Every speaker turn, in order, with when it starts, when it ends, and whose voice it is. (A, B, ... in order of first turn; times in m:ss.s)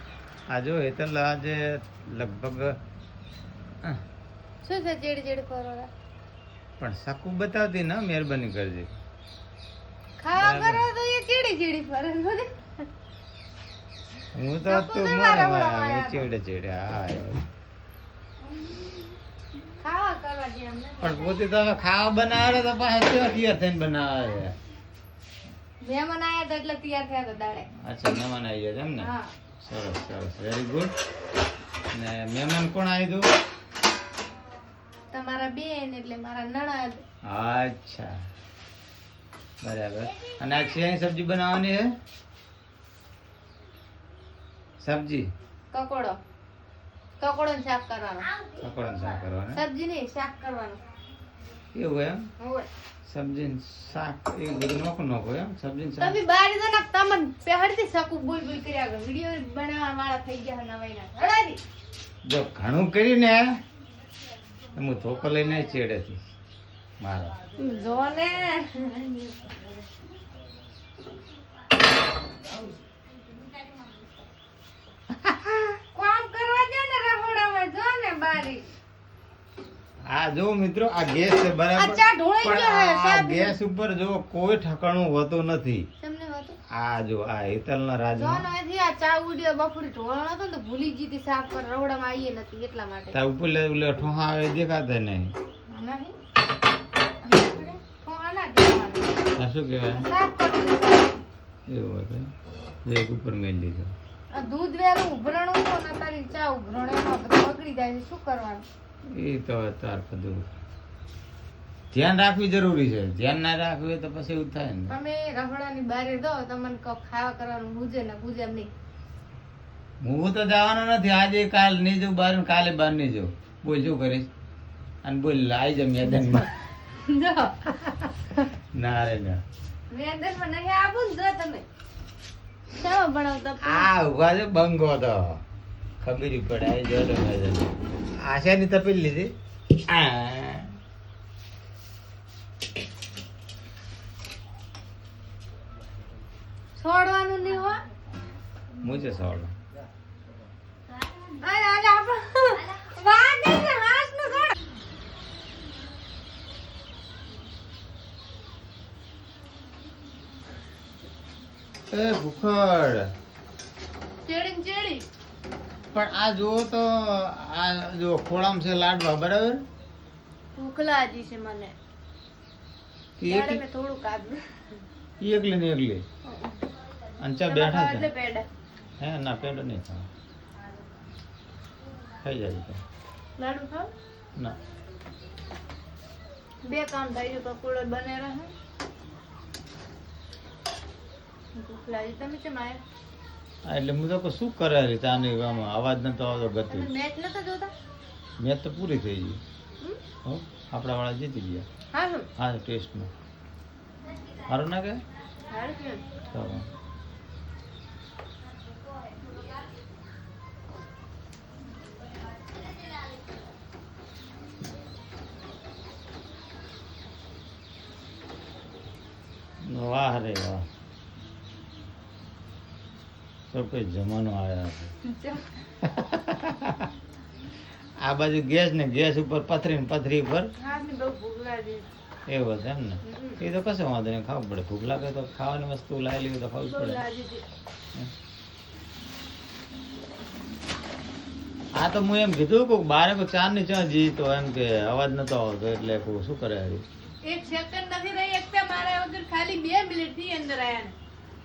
0:00.5-0:02.8 A
0:04.6-0:05.9 B
0:06.8-0:08.9 A
0:10.2-0:12.5 B
0:10.3-0:10.8 A
0:14.3-0:17.4 A
0:14.6-0:16.3 B
0:19.8-0:21.4 B
0:21.0-0:24.5 A
0:25.8-0:27.7 B
0:27.8-0:29.1 A
0:29.0-0:29.3 B
0:29.6-0:30.9 A
0:31.9-0:33.3 A
0:35.1-0:37.0 B
0:37.3-0:38.1 A
0:39.6-0:41.9 A
0:44.8-0:45.3 A
0:45.7-0:46.2 B
0:47.2-0:48.3 B
0:48.6-0:49.6 A
0:49.5-0:50.8 B
0:51.8-0:52.3 A
0:52.4-0:52.7 B
0:53.1-0:56.2 A
0:56.0-1:01.6 B
1:02.2-1:03.5 A
1:04.8-1:06.2 A
1:07.0-1:07.4 A
1:07.6-1:09.6 B
1:15.1-1:15.8 A
1:15.9-1:18.6 B
1:20.1-1:25.9 A
1:21.8-1:23.5 B
1:26.0-1:26.6 B
1:26.7-1:28.5 A
1:28.2-1:33.2 B
1:33.1-1:35.4 A
1:35.7-1:36.2 B
1:37.2-1:39.2 B
1:39.4-1:40.1 A
1:40.0-1:41.2 B
1:41.7-1:42.3 A
1:42.8-1:43.9 A
1:44.3-1:48.6 B
1:49.1-1:50.5 A
1:51.9-1:55.0 A
1:54.9-1:58.7 B
2:00.0-2:04.3 A
2:05.0-2:06.5 A
2:06.9-2:07.7 B
2:08.7-2:09.4 A
2:09.9-2:11.6 B
2:12.8-2:13.9 B
2:13.6-2:15.4 A
2:16.0-2:19.3 A
2:19.8-2:20.7 A
2:26.8-2:27.8 B
2:28.8-2:29.5 A
2:31.4-2:34.5 B
2:41.9-2:43.1 A
2:44.2-2:45.1 B
2:45.9-2:49.6 A
2:50.6-2:51.7 B
2:53.2-2:53.6 A
2:53.2-2:54.6 B
2:55.2-2:56.0 A
2:56.2-2:56.6 B
2:57.2-2:58.1 A
2:57.4-2:58.5 B
2:59.0-3:00.1 A
3:02.2-3:02.8 A
3:03.4-3:03.9 B
3:06.6-3:08.5 B
3:11.6-3:12.8 B
3:13.6-3:16.9 A
3:16.7-3:17.7 B
3:18.4-3:19.4 A
3:20.2-3:21.7 A
3:21.9-3:22.3 B
3:22.4-3:23.1 A
3:24.5-3:25.0 A
3:25.5-3:26.0 B
3:26.3-3:26.7 A
3:39.6-3:40.6 A
3:43.5-3:44.9 A
3:45.0-3:45.6 B
3:45.8-3:46.9 A
3:48.0-3:50.5 A
3:50.6-3:51.9 B
3:52.3-3:57.0 A
3:53.0-3:53.4 B
3:56.6-3:57.4 B
4:01.8-4:06.8 A
4:07.2-4:10.9 B